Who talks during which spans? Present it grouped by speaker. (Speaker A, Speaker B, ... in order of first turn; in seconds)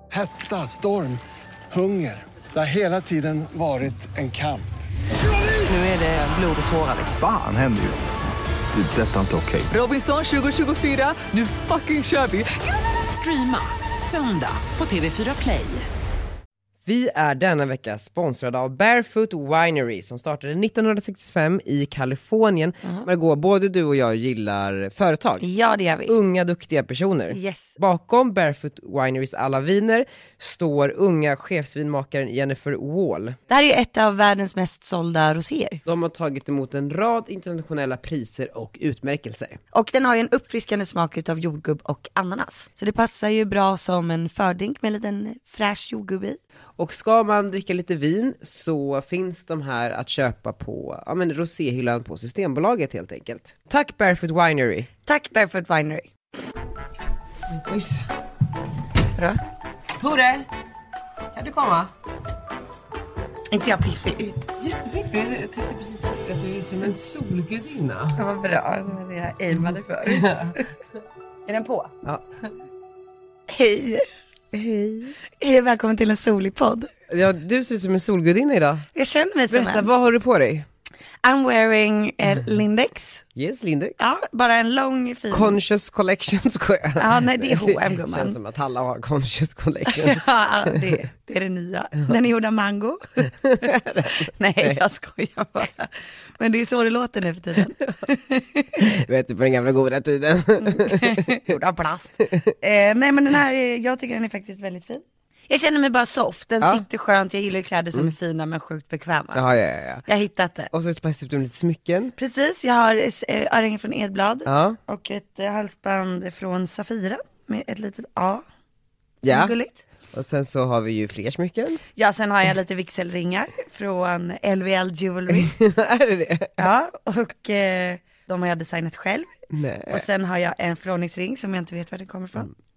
Speaker A: 0.1-4.7
Speaker B: 5.7-7.2, 9.7-15.9
Speaker C: 7.1-8.1, 8.7-9.7
Speaker D: 16.9-25.4, 26.1-33.4, 35.9-39.6, 46.8-54.9, 57.5-58.0, 60.0-60.5, 61.3-61.9, 64.6-68.2, 70.0-70.5, 74.5-75.2, 77.1-78.9, 79.5-80.7, 83.3-84.0, 85.3-90.9, 93.4-94.8, 98.8-101.2, 109.3-110.0, 110.7-112.1, 114.5-114.8, 119.2-119.5, 120.1-121.8, 125.3-126.6, 129.5-130.0
Speaker E: 25.4-26.1, 27.3-27.8, 33.5-35.8, 39.7-46.4, 55.0-56.1, 63.5-64.4, 68.2-70.6, 71.5-71.9, 73.5-74.0, 75.4-76.9, 78.9-79.9, 81.2-83.2, 84.0-85.6, 87.0-88.3, 89.9-98.8, 100.6-109.4, 110.0-110.7, 112.2-118.4, 119.3-119.8, 122.0-125.5, 126.6-129.3, 129.9-132.5